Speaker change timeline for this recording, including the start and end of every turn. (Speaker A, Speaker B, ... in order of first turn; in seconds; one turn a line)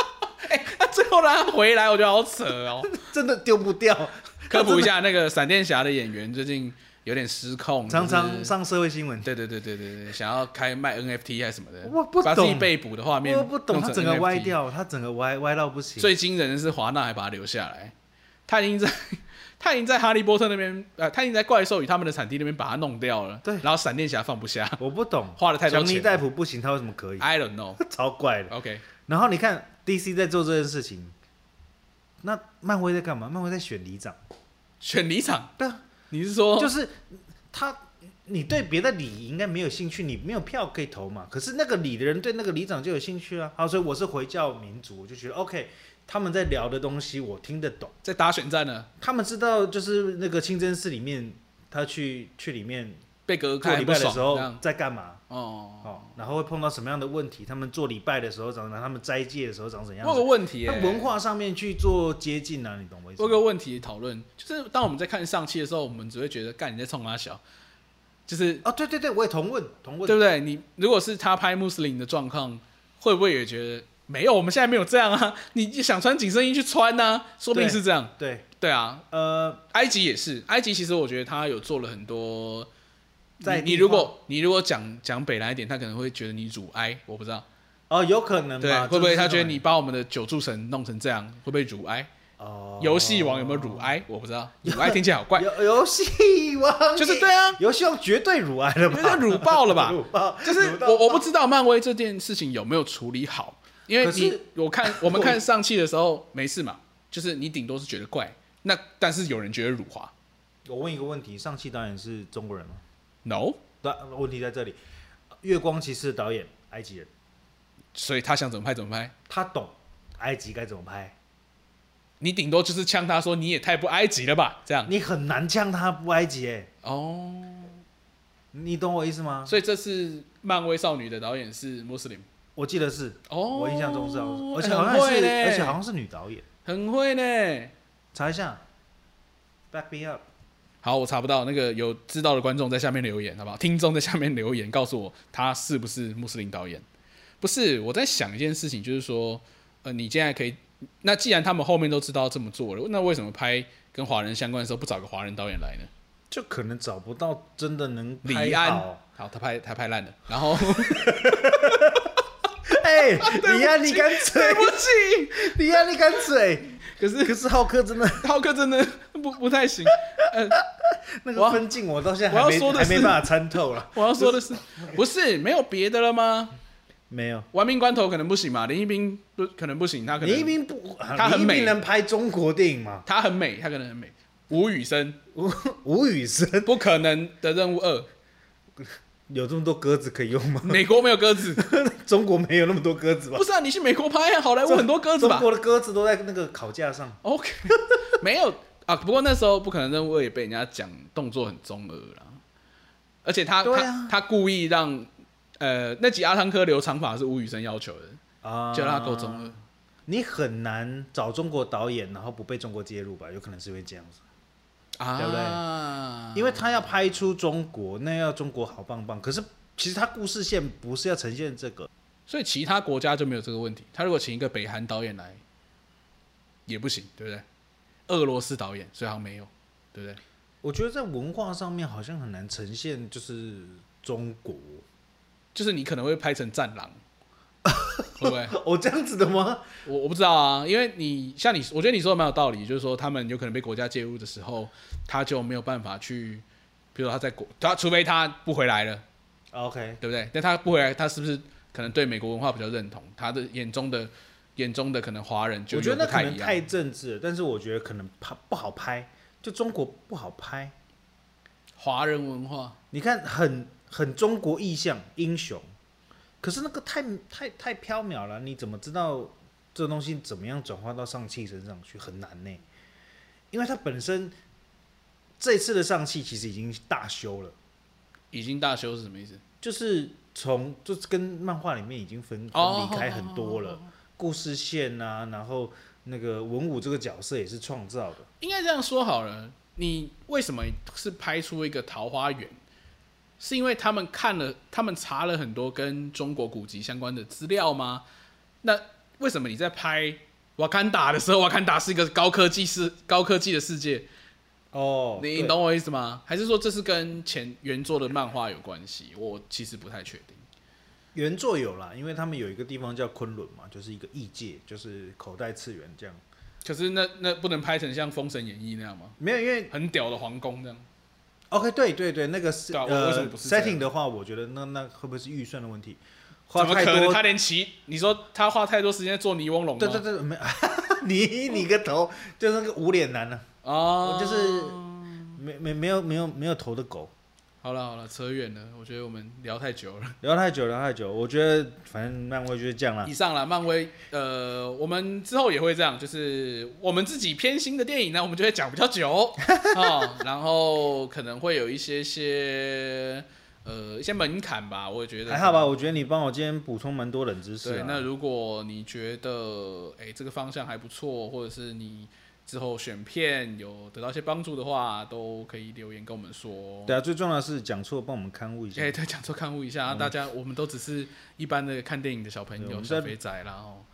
Speaker A: 0.3-3.0
Speaker B: 2.9-4.9
Speaker A: 4.5-8.5
Speaker B: 7.9-9.3
Speaker A: 9.2-14.6
Speaker B: 11.8-12.7
Speaker B: 13.2-16.1
Speaker A: 16.0-17.9
Speaker A: 18.5-24.8
Speaker B: 24.8-28.6
Speaker A: 25.4-26.2
Speaker A: 27.2-27.8
Speaker A: 28.5-28.8
Speaker B: 29.1-31.1
Speaker B: 32.2-34.2
Speaker A: 34.8-35.5
Speaker B: 35.6-35.8
Speaker A: 36.1-36.7
Speaker B: 36.6-47.9
Speaker A: 48.0-48.9
Speaker B: 49.0-53.0
Speaker A: 53.3-54.6
Speaker B: 53.6-55.2
Speaker A: 55.3-56.1
Speaker B: 55.8-63.5
Speaker A: 60.0-61.1
Speaker A: 63.2-67.4
Speaker A: 68.3-68.6
Speaker B: 68.6-70.2
Speaker A: 70.0-79.0
Speaker B: 77.5-78.5
Speaker B: 79.1-79.6
Speaker A: 79.7-82.7
Speaker A: 83.4-87.5
Speaker B: 83.4-84.1
Speaker B: 87.9-89.6
Speaker A: 88.6-92.1
Speaker B: 92.4-94.0
Speaker A: 92.8-95.5
Speaker B: 94.6-101.2
Speaker A: 97.0-97.6
Speaker A: 98.9-110.1
Speaker B: 104.0-105.4
Speaker B: 110.7-112.8
Speaker A: 113.2-113.6
Speaker B: 113.8-114.8
Speaker B: 115.4-117.1
Speaker A: 118.0-119.1
Speaker B: 119.3-121.2
Speaker A: 122.2-124.9
Speaker B: 124.9-126.7
Speaker A: 126.8-127.8
Speaker B: 128.5-129.6
Speaker A: 129.4-132.3
Speaker B: 132.6-136.4
Speaker A: 133.3-135.8
Speaker A: 136.6-137.7
Speaker B: 138.1-138.6
Speaker B: 139.7-140.2
Speaker A: 140.8-146.8
Speaker A: 147.4-155.9
Speaker B: 156.3-159.0
Speaker A: 158.2-162.1
Speaker B: 160.6-162.1
Speaker B: 162.7-168.3
Speaker A: 163.2-165.6
Speaker A: 166.9-167.4
Speaker A: 168.2-170.6
Speaker B: 170.6-175.0
Speaker A: 171.4-171.6
Speaker A: 172.3-173.3
Speaker A: 173.9-176.5
Speaker B: 177.1-177.5
Speaker A: 177.5-180.5
Speaker B: 180.2-183.1
Speaker A: 181.2-181.8
Speaker A: 183.1-185.2
Speaker B: 185.3-186.7
Speaker A: 186.6-188.1
Speaker B: 189.3-190.9
Speaker A: 190.6-191.7
Speaker B: 191.5-193.4
Speaker A: 193.3-195.5
Speaker B: 194.7-197.8
Speaker A: 197.2-202.4
Speaker A: 203.2-208.2
Speaker B: 203.6-204.1
Speaker B: 208.4-209.5
Speaker A: 208.7-209.6
Speaker B: 210.1-214.2
Speaker A: 215.0-216.6
Speaker B: 215.2-215.6
Speaker B: 216.3-221.9
Speaker A: 222.3-225.4
Speaker A: 226.7-227.4
Speaker A: 228.1-230.2
Speaker B: 230.6-234.8
Speaker A: 235.6-237.0
Speaker B: 237.6-239.7
Speaker A: 238.2-238.6
Speaker A: 239.8-249.0
Speaker B: 249.5-250.0
Speaker A: 250.0-256.6
Speaker B: 255.7-260.7
Speaker A: 261.8-262.8
Speaker B: 262.9-265.7
Speaker B: 266.4-272.6
Speaker B: 273.5-274.4
Speaker B: 275.4-277.6
Speaker A: 278.3-279.4
Speaker B: 279.6-288.3
Speaker A: 282.5-283.9
Speaker A: 288.4-292.6
Speaker A: 293.4-298.0
Speaker A: 298.6-304.1
Speaker B: 304.7-305.6
Speaker A: 305.2-310.4
Speaker B: 311.1-316.2
Speaker A: 316.6-319.2
Speaker B: 319.2-319.7
Speaker A: 319.7-320.9
Speaker B: 321.5-327.2
Speaker A: 322.7-323.9
Speaker A: 326.6-330.0
Speaker B: 329.8-333.4
Speaker A: 333.6-335.4
Speaker B: 334.0-334.8
Speaker B: 335.4-337.1
Speaker A: 337.6-340.2
Speaker B: 340.2-343.1
Speaker A: 343.1-355.7
Speaker B: 349.5-350.0
Speaker B: 355.3-358.1
Speaker A: 357.6-366.9
Speaker B: 366.9-368.9
Speaker A: 368.7-373.9
Speaker B: 369.9-370.1
Speaker B: 372.6-373.1